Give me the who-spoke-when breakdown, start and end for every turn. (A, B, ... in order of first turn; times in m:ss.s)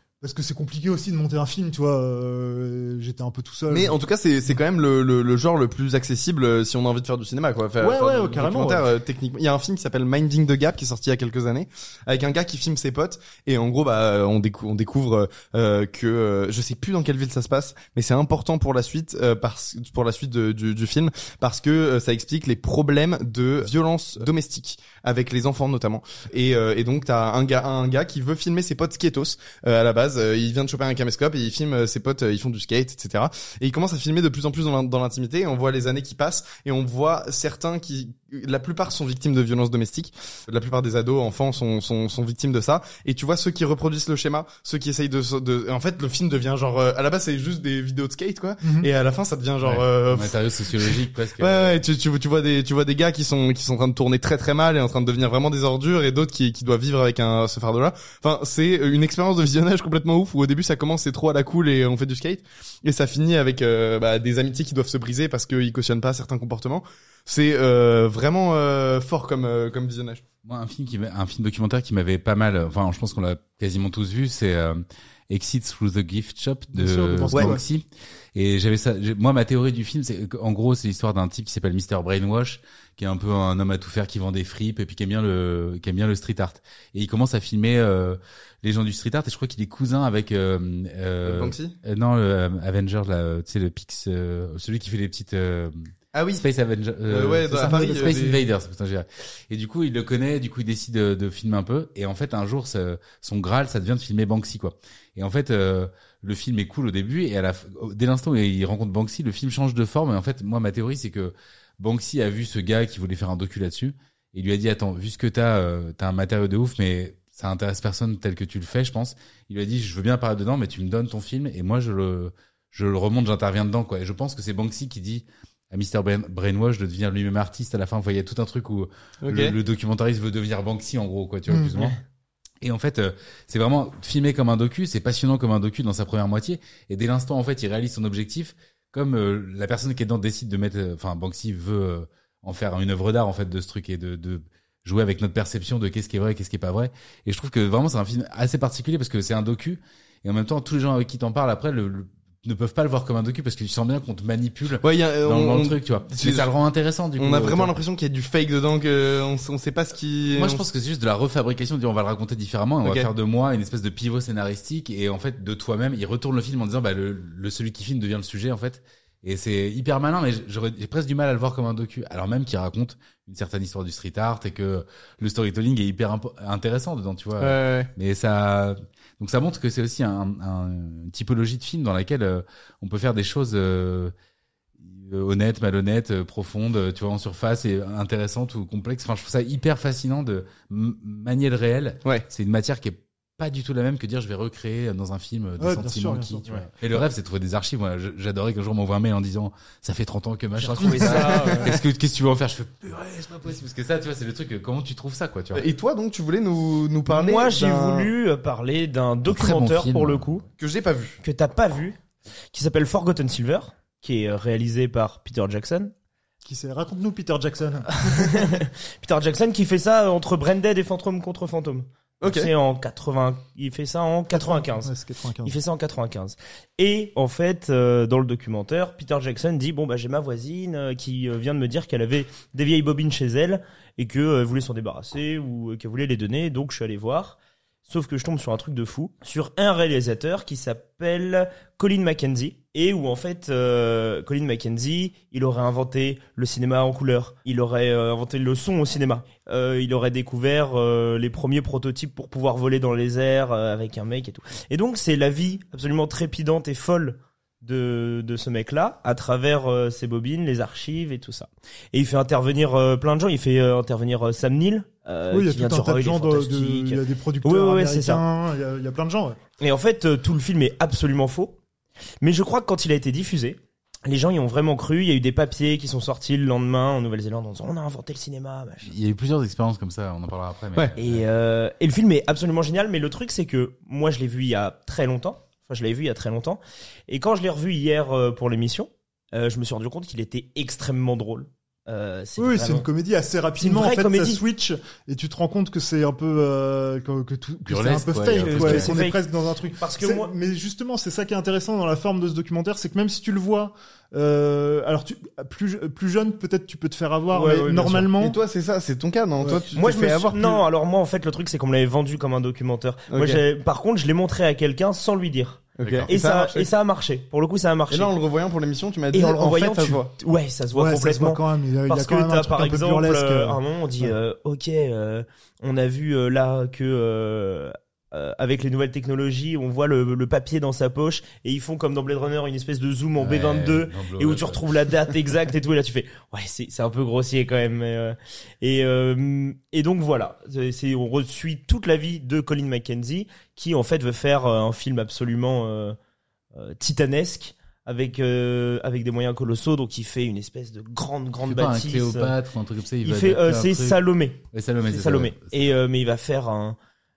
0:00.2-0:03.9 A
0:03.7-1:10.2 B
0:07.8-0:08.9 A
0:48.6-0:48.9 A
0:49.6-0:51.8 C
1:10.4-1:35.9 C
1:16.7-1:17.6 A
1:17.3-1:17.6 B
1:31.2-1:31.7 B
1:36.1-1:36.4 B
1:36.4-2:12.0 C
1:37.1-1:38.4 B
2:09.2-2:09.6 B
2:11.5-2:11.8 A
2:12.6-2:37.7 C
2:34.8-2:36.5 B
2:37.2-2:40.6 B
2:40.4-3:04.1 C
2:42.8-2:43.1 B
2:57.4-2:57.9 B
3:04.8-3:25.7 C
3:15.6-3:16.4 A
3:20.6-3:21.8 D
3:20.8-3:21.1 A
3:21.0-3:21.8 B
3:25.5-3:28.1 B
3:27.1-3:30.4 D
3:29.2-3:30.4 C
3:30.6-3:31.2 B
3:31.2-3:32.0 D
3:32.5-3:35.9 D
3:36.4-3:38.4 A
3:38.1-3:44.9 D
3:42.2-3:42.5 B
3:44.3-3:45.6 A
3:45.4-4:28.2 D
4:25.3-4:29.4 A
4:29.6-4:31.6 D
4:32.2-4:38.9 D
4:38.8-4:41.2 C
4:41.0-4:52.9 D
4:52.4-5:08.4 A
4:53.6-4:54.4 D
4:57.7-4:59.0 C
4:58.4-5:00.3 D
5:07.3-5:10.6 B
5:09.7-5:18.1 D
5:13.1-5:13.4 B
5:15.8-5:16.7 B
5:15.8-5:16.1 C
5:17.9-5:20.1 B
5:19.1-5:46.0 D
5:20.7-5:24.2 A
5:33.2-5:34.6 C
5:46.6-5:52.3 D
5:51.4-5:54.0 C
5:53.0-5:56.8 D
5:54.5-5:55.5 C